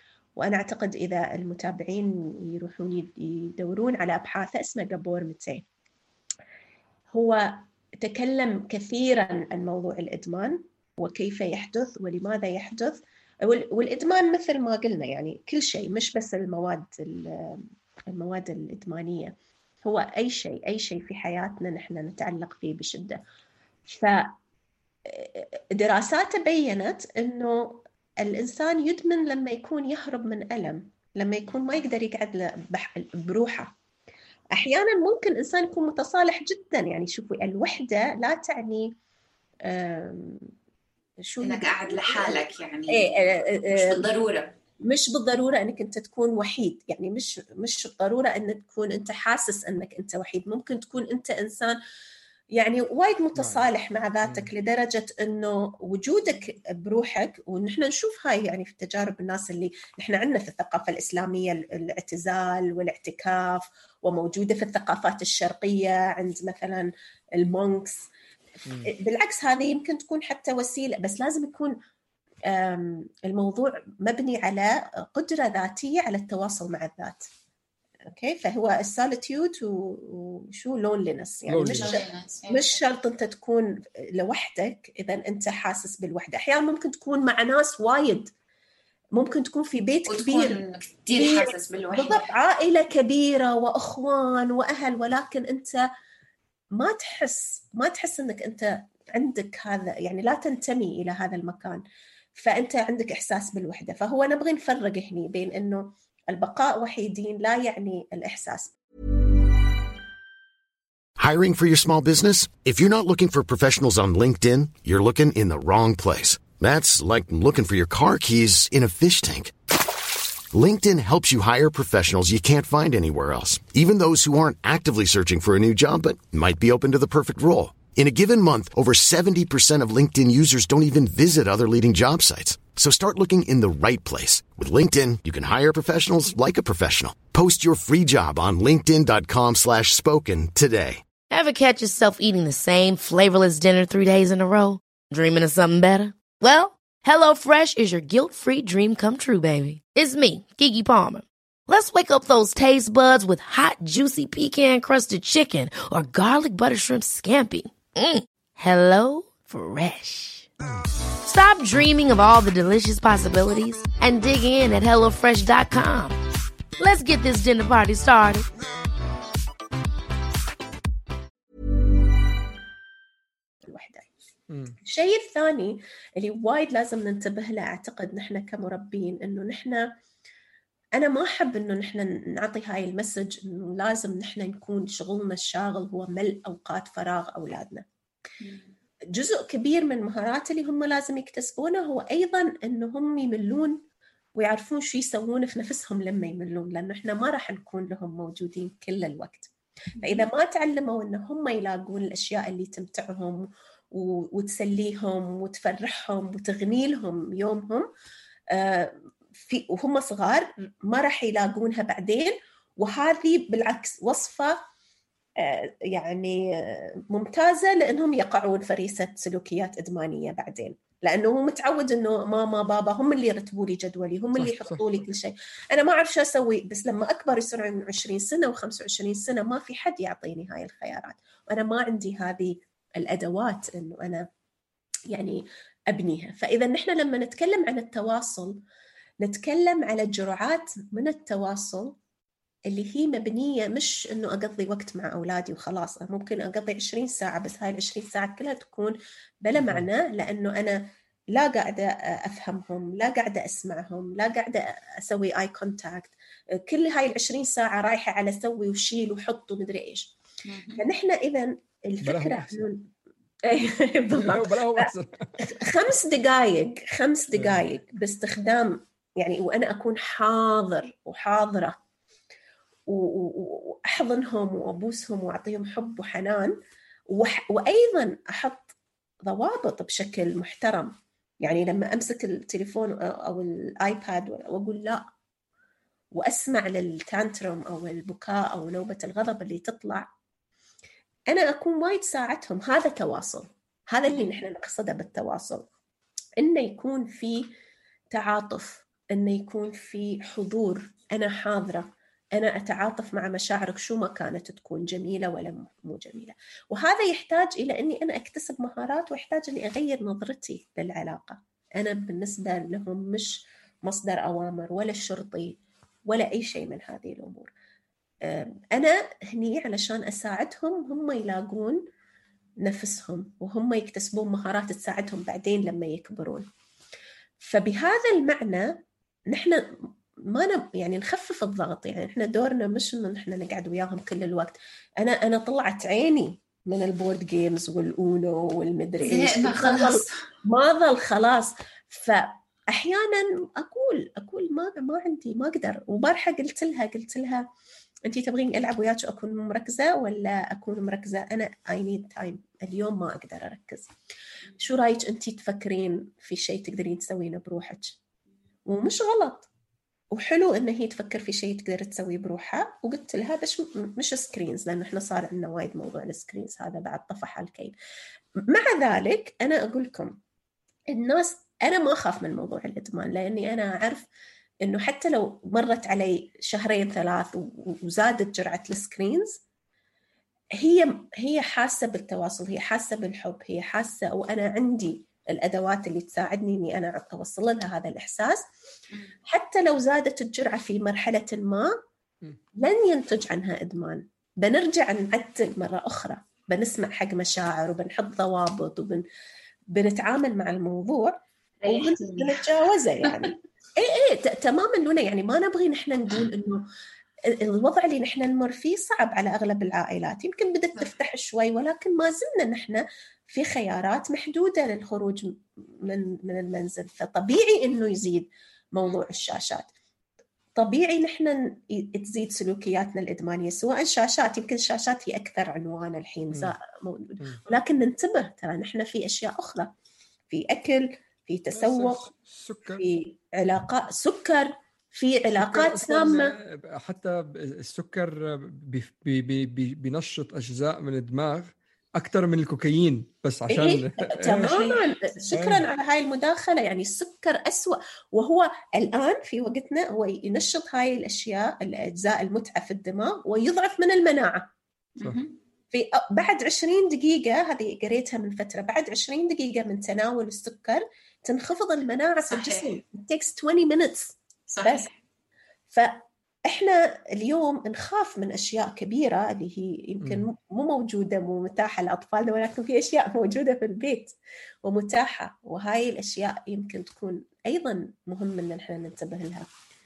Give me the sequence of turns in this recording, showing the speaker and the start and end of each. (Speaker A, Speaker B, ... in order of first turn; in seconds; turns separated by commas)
Speaker A: 0.4-5.6, Speaker A: 7.1-23.2, Speaker A: 23.9-24.3, Speaker A: 25.1-33.7, Speaker A: 34.5-38.9, Speaker A: 39.7-40.5, Speaker A: 41.3-44.0, Speaker B: 41.4-43.1, Speaker B: 43.7-44.5, Speaker A: 44.8-51.8, Speaker A: 52.5-68.1, Speaker C: 53.3-53.6, Speaker C: 54.2-54.5, Speaker C: 68.7-68.9, Speaker A: 68.9-71.7, Speaker A: 72.5-77.3, Speaker A: 78.1-88.3, Speaker C: 81.5-82.0, Speaker B: 81.7-82.8, Speaker A: 89.2-90.6, Speaker B: 90.1-92.3, Speaker A: 91.2-95.8, Speaker A: 96.8-101.8, Speaker A: 102.3-108.7, Speaker D: 111.2-119.5, Speaker D: 120.5-141.0, Speaker E: 141.3-160.5, Speaker E: 161.2-166.2, Speaker E: 166.8-168.5, Speaker A: 173.7-174.1, Speaker C: 174.5-174.8, Speaker A: 174.8-179.8, Speaker A: 181.0-187.8, Speaker B: 188.4-188.7, Speaker A: 189.1-193.8, Speaker A: 194.4-199.5, Speaker A: 200.0-207.9, Speaker A: 208.5-214.5, Speaker A: 215.4-234.2, Speaker C: 224.3-225.0, Speaker A: 235.1-238.6, Speaker A: 239.2-241.9, Speaker A: 242.7-260.1, Speaker C: 249.6-249.9, Speaker B: 260.4-260.8, Speaker A: 260.8-262.8, Speaker C: 262.0-262.7, Speaker A: 263.5-264.9, Speaker C: 264.1-265.3, Speaker A: 265.4-271.8, Speaker C: 267.4-267.6, Speaker A: 272.9-276.5, Speaker A: 277.1-278.7, Speaker A: 279.2-285.0, Speaker A: 286.1-290.1, Speaker A: 291.3-295.7, Speaker B: 294.1-294.4, Speaker A: 296.4-297.5, Speaker A: 298.1-317.5, Speaker A: 318.2-321.8, Speaker A: 322.6-326.5, Speaker A: 327.4-329.6, Speaker A: 330.3-347.4, Speaker B: 339.0-340.1, Speaker A: 348.1-353.9, Speaker A: 354.6-358.0, Speaker A: 358.7-359.5, Speaker A: 360.1-367.7, Speaker A: 368.5-370.2, Speaker A: 370.9-374.1, Speaker A: 374.6-379.4, Speaker A: 380.6-388.4, Speaker A: 389.3-391.7, Speaker A: 392.6-399.0, Speaker A: 399.7-406.6, Speaker B: 401.6-402.5, Speaker B: 403.0-403.3, Speaker A: 407.3-419.7, Speaker A: 420.6-429.7, Speaker A: 430.3-432.0, Speaker C: 431.5-432.8, Speaker A: 432.8-436.3, Speaker C: 435.4-444.6, Speaker A: 443.5-454.5, Speaker C: 445.3-445.7, Speaker B: 455.0-455.4, Speaker A: 455.7-464.9, Speaker B: 462.3-462.8, Speaker B: 464.5-464.9, Speaker A: 465.7-479.5, Speaker C: 470.0-470.3